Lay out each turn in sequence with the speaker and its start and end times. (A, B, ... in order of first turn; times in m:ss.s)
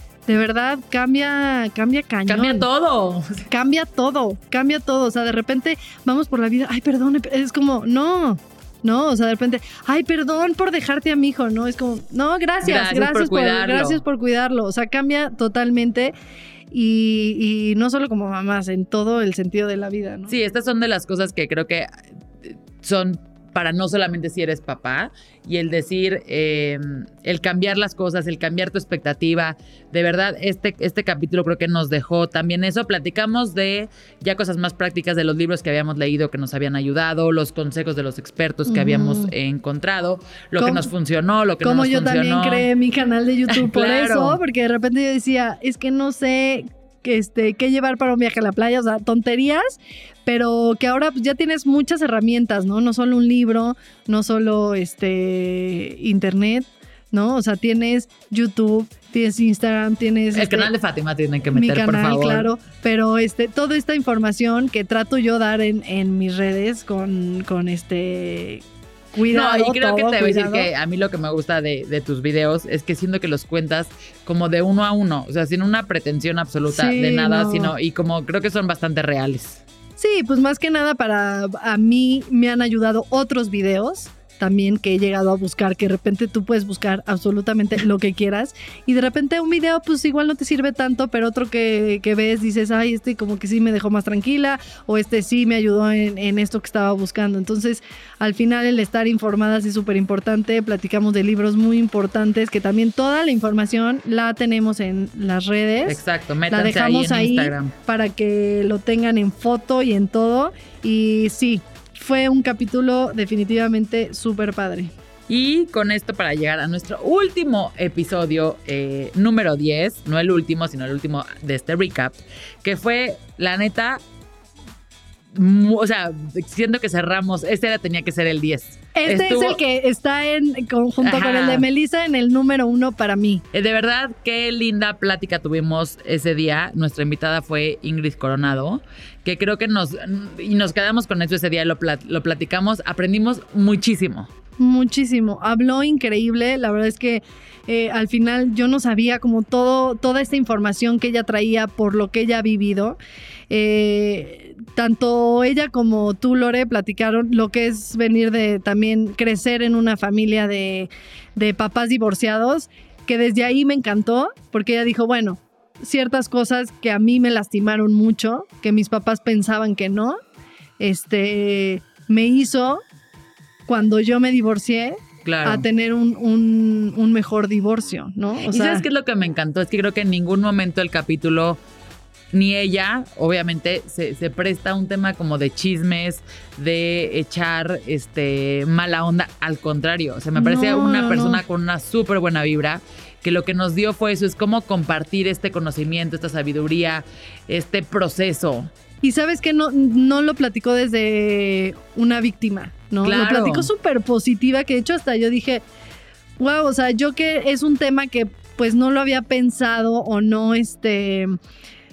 0:00.3-0:02.7 A
0:02.3-0:03.4 B
0:03.5-0:16.1 A
0:12.6-0:14.0 B
0:16.7-0:20.3 A
0:20.3-0:21.9 B
0:22.4-0:42.7 B
0:38.7-0:39.3 A
0:40.6-0:40.9 A
0:41.6-1:00.7 A
0:43.5-0:44.4 B
1:00.3-1:02.5 B
1:01.5-1:10.7 A
1:09.3-1:19.6 B
1:16.7-1:17.7 A
1:20.0-1:54.9 A
1:45.9-1:47.7 B
1:55.3-2:04.0 B
2:05.3-2:09.6 B
2:08.9-2:13.4 A
2:11.0-2:11.6 B
2:13.5-2:24.3 B
2:24.6-2:33.0 A
2:33.5-2:50.2 A
2:50.8-2:52.8 A
2:53.7-2:58.8 A
2:55.2-2:55.6 B
2:58.4-3:01.6 B
3:02.3-3:18.7 B
3:10.3-3:11.4 A
3:19.0-3:25.6 A
3:23.0-3:23.7 B
3:26.4-3:31.4 A